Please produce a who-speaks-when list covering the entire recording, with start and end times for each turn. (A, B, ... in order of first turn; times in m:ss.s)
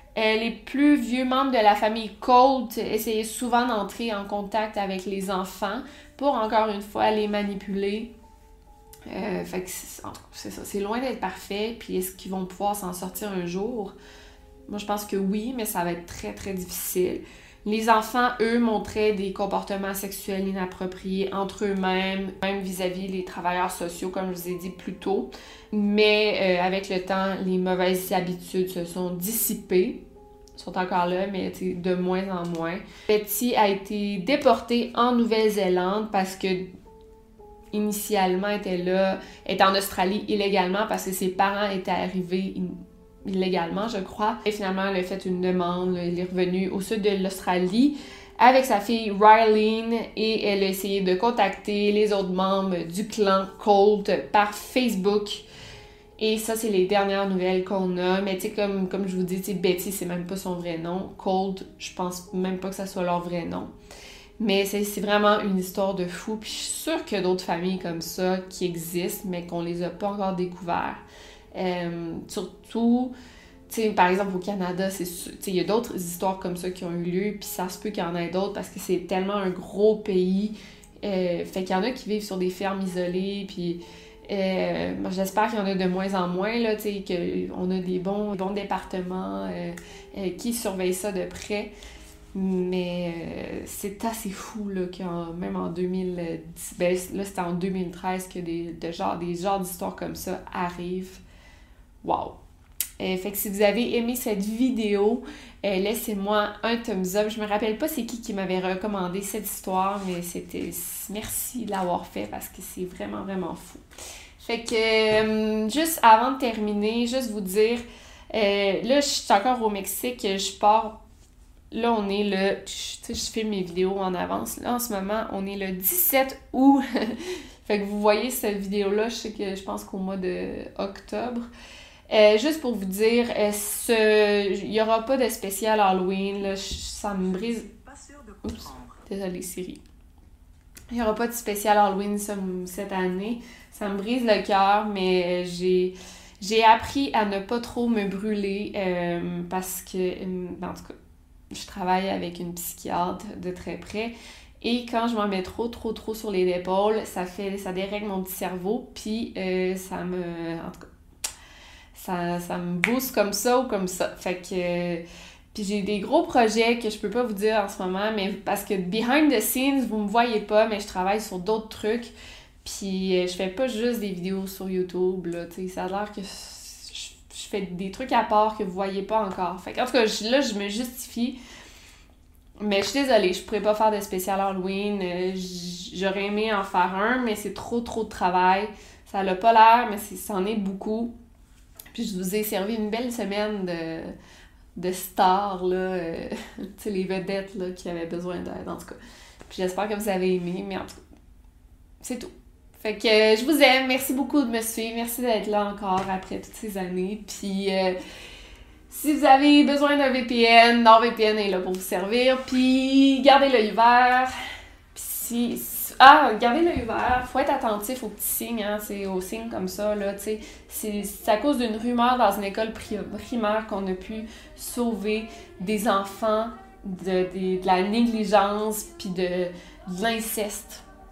0:00.1-0:08.1 A
0:09.1-0:13.9 A
0:14.7-0:30.0 A
0:30.6-0:36.6 A
0:37.7-0:55.4 A
0:56.2-1:03.7 A
1:04.4-1:11.0 A
1:11.5-1:13.1 A
1:13.7-1:31.7 A
1:32.3-1:41.2 A
1:42.0-1:42.4 A
1:43.0-1:53.8 A
1:54.4-2:01.0 A
2:01.7-2:11.5 A
2:12.1-2:17.8 A
2:18.4-2:19.8 A
2:20.9-2:30.9 A
2:31.5-2:40.8 A
2:41.9-3:01.4 A
3:02.6-3:11.1 A
3:11.9-3:14.1 A
3:14.7-3:21.0 A
3:22.0-3:28.0 A
3:28.9-3:34.3 A
3:34.9-3:50.8 A